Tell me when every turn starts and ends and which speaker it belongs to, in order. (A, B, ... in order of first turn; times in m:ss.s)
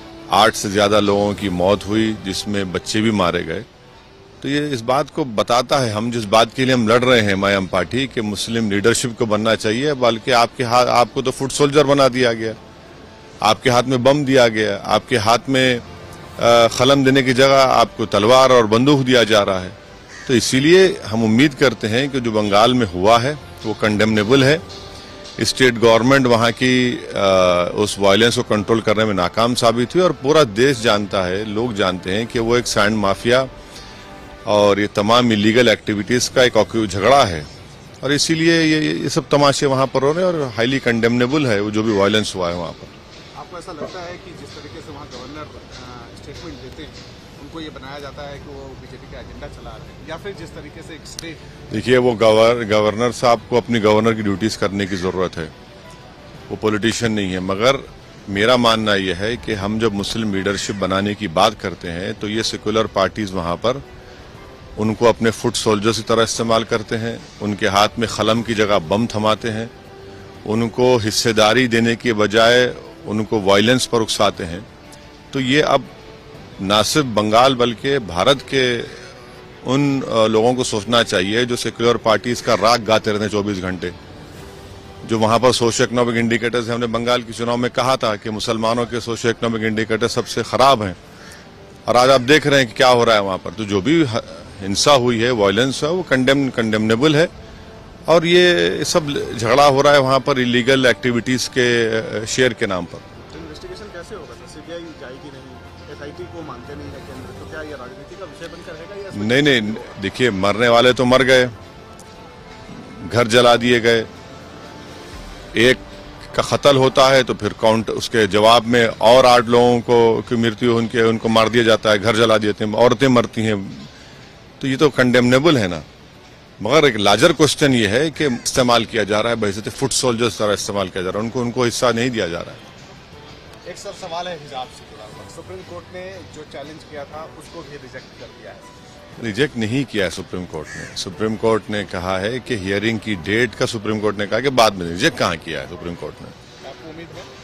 0:00.3-0:03.7 A
0:04.4-0:12.6 A
0:13.4-0:15.8 A
0:16.4-0:24.6 A
0:25.4-0:33.5 A
0:34.5-0:37.5 A
0:38.0-0:42.9 A
0:43.4-0:51.4 B
0:51.7-0:55.5 A
0:56.5-1:03.8 A
1:04.8-1:09.7 A
1:10.4-1:14.7 A
1:15.3-1:15.9 A
1:16.6-1:19.1 A
1:19.6-1:24.0 A
1:25.0-1:31.0 A
1:31.9-1:37.3 A
1:38.1-1:43.0 A
1:43.2-1:50.0 B
1:49.1-1:51.5 A
1:52.7-1:54.1 A
1:55.5-2:03.9 A
2:04.6-2:05.8 A
2:06.6-2:12.6 A
2:13.6-2:18.7 B
2:19.2-2:26.4 A
2:26.6-2:27.3 B